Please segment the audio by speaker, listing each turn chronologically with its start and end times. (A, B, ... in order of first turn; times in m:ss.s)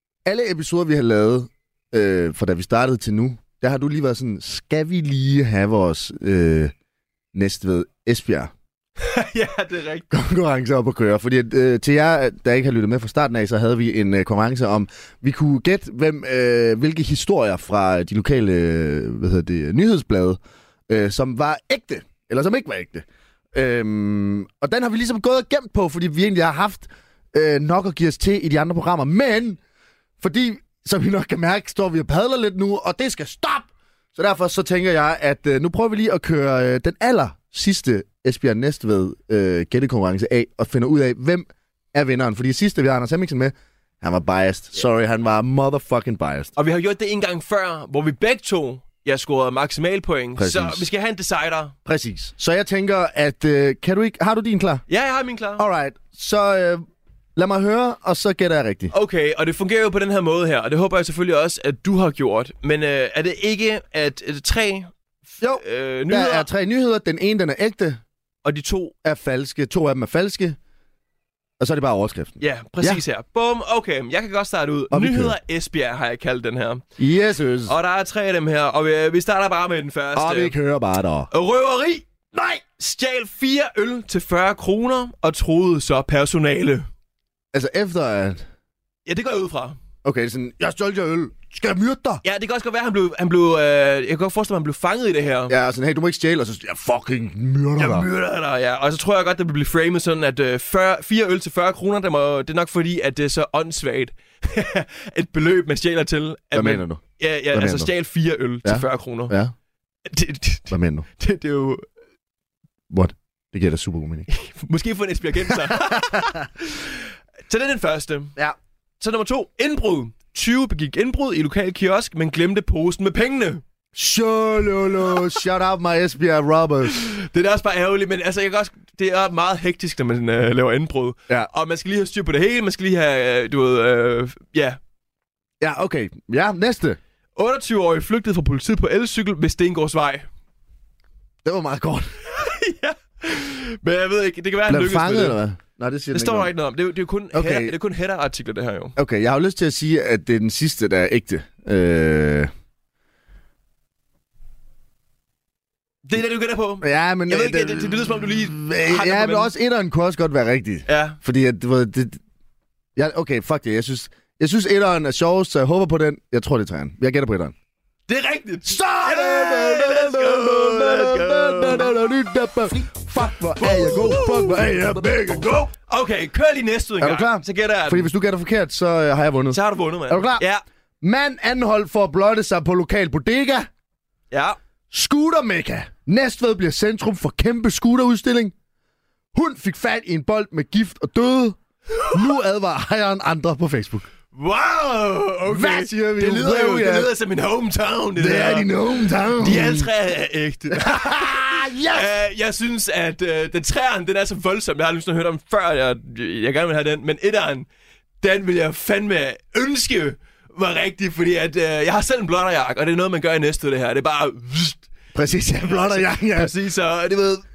0:00.2-0:06.7 A
0:07.3-0:08.5 A
0:09.0-0:10.1 B
0:10.1-0:29.6 A
0:30.2-0:46.5 A
0:46.6-0:51.7 B
0:50.4-0:50.8 A
0:51.8-0:54.8 A
0:54.9-0:55.6 B
0:55.6-0:56.8 A
0:57.4-0:58.9 A
0:58.9-1:06.5 B
1:05.4-1:08.0 A
1:08.4-1:08.9 B
1:09.0-1:10.6 A
1:11.6-1:13.0 A
1:12.4-1:16.8 B
1:14.9-1:15.3 A
1:17.0-1:17.7 A
1:17.7-1:20.6 B
1:20.1-1:21.3 A
1:21.3-1:22.0 B
1:22.3-1:22.6 A
1:22.8-1:26.9 B
1:27.5-1:28.4 A
1:29.0-1:29.8 B
1:30.0-1:32.2 A
1:32.2-1:35.5 B
1:35.5-1:38.1 A
1:37.8-1:49.3 B
1:46.5-1:47.9 A
1:48.6-1:49.5 A
1:50.0-1:51.8 B
1:50.7-1:51.0 A
1:52.9-1:54.3 A
1:54.3-1:58.4 B
1:55.5-1:56.4 A
1:59.0-2:03.6 B
2:03.9-2:07.0 A
2:06.9-2:14.8 B
2:15.6-2:17.0 A
2:17.4-2:20.2 B
2:21.4-2:22.1 A
2:22.3-2:25.4 B
2:24.7-2:26.5 A
2:26.1-2:29.0 B
2:27.3-2:27.7 A
2:29.0-2:32.5 A
2:36.0-2:39.5 B
2:36.8-2:42.2 A
2:40.9-2:41.2 B
2:43.0-2:47.5 A
2:48.1-2:51.9 B
2:48.6-2:55.7 A
2:53.5-2:58.1 B
2:57.0-3:00.4 A
2:59.5-3:00.6 B
3:01.0-3:03.7 A
3:04.3-3:04.6 B
3:04.9-3:08.5 A
3:09.3-3:11.6 A
3:11.9-3:12.3 B
3:12.1-3:14.1 A
3:14.3-3:27.6 B
3:15.5-3:17.1 A
3:18.2-3:19.9 A
3:20.7-3:22.1 A
3:28.2-3:34.9 B
3:35.1-3:36.5 A
3:35.6-3:37.4 B